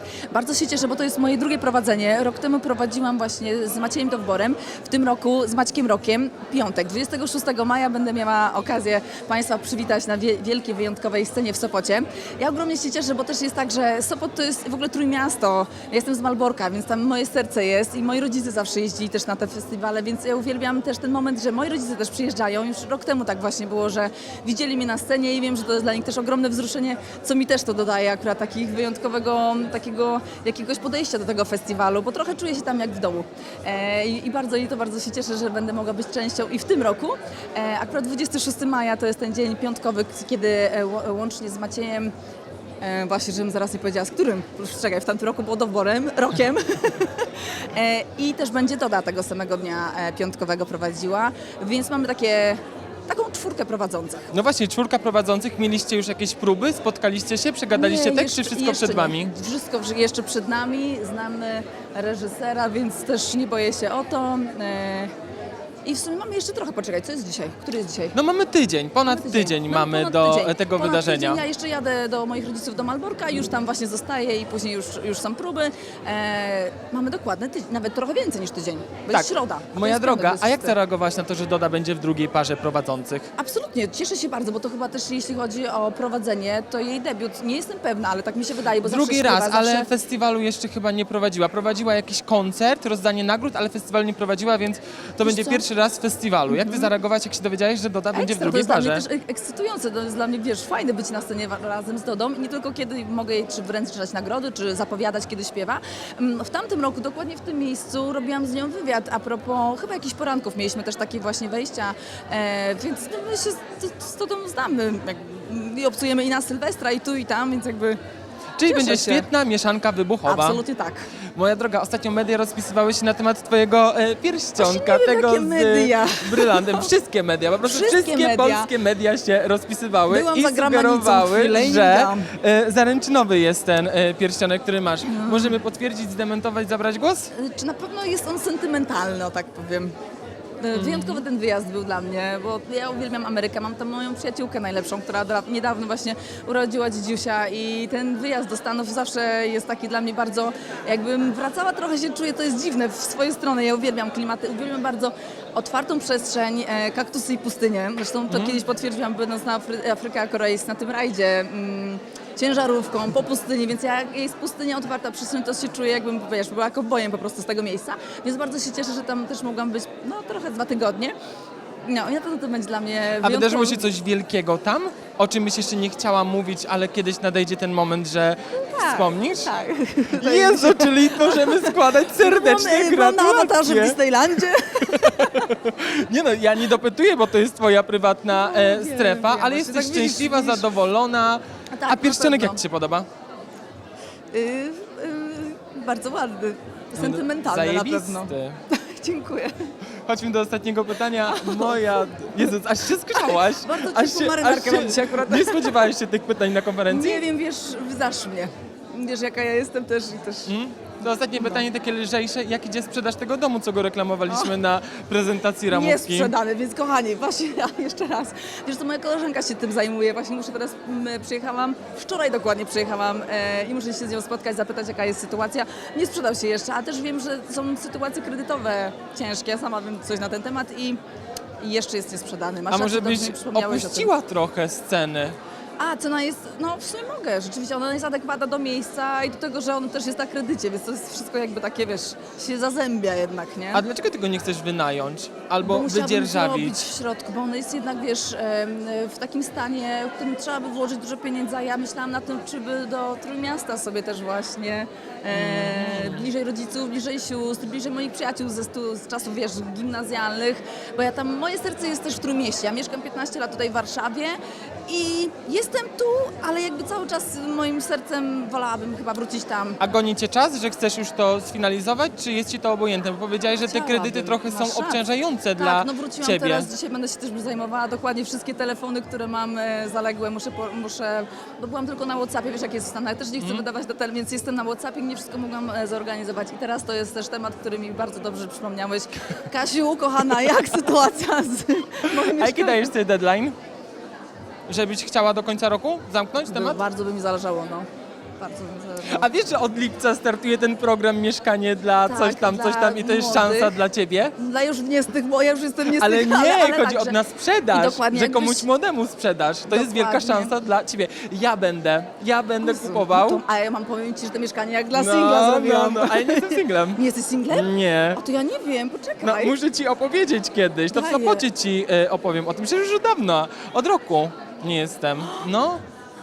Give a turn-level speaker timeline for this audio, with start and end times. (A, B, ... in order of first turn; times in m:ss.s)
0:00.3-0:42.1 A
0:42.8-0:54.3 A
0:54.3-0:59.3 B
0:57.7-1:05.1 A
1:05.8-1:08.2 A
1:08.1-1:11.4 B
1:09.0-1:20.8 A
1:19.1-1:23.3 B
1:23.4-1:29.9 A
1:28.8-1:39.0 B
1:35.2-1:35.6 A
1:36.5-1:36.9 A
1:38.1-1:58.0 A
1:58.6-2:00.6 B
1:58.7-1:59.3 A
2:00.2-2:01.0 A
2:01.4-2:17.3 B
2:04.6-2:06.9 A
2:07.6-2:08.7 A
2:10.1-2:12.3 A
2:15.0-2:15.6 A
2:17.3-2:19.9 A
2:20.6-2:51.1 A
2:20.7-2:21.2 B
2:38.3-2:38.6 B
2:51.8-2:53.9 A
2:53.2-2:59.5 B
2:58.5-3:05.5 A
3:00.1-3:04.0 B
3:04.8-3:13.1 B
3:08.3-3:10.7 A
3:11.7-3:12.6 A
3:14.3-3:19.7 A
3:17.0-3:18.6 B
3:20.1-3:27.2 B
3:21.2-3:22.5 A
3:23.1-3:25.9 A
3:26.9-3:30.5 A
3:30.5-3:36.3 B
3:31.4-3:31.6 A
3:34.3-3:34.6 A
3:35.7-3:51.0 A
3:51.6-3:54.1 A
3:52.7-3:55.4 B
3:55.8-4:03.8 A
4:03.7-4:06.9 B
4:05.6-4:29.8 A
4:15.3-4:16.2 B
4:29.8-4:36.7 B
4:33.7-4:35.0 A
4:35.6-4:52.9 A
4:43.4-4:43.6 B
4:52.1-4:53.6 B
4:54.7-4:56.8 B
4:56.4-4:57.9 A
4:58.4-4:59.3 A
4:59.1-5:04.4 B
5:02.0-5:03.8 A
5:04.4-5:07.2 A
5:05.9-5:13.4 B
5:07.7-5:08.7 A
5:09.7-5:10.5 A
5:12.6-5:19.6 A
5:14.9-5:18.2 B
5:19.2-5:25.8 B
5:20.9-5:21.5 A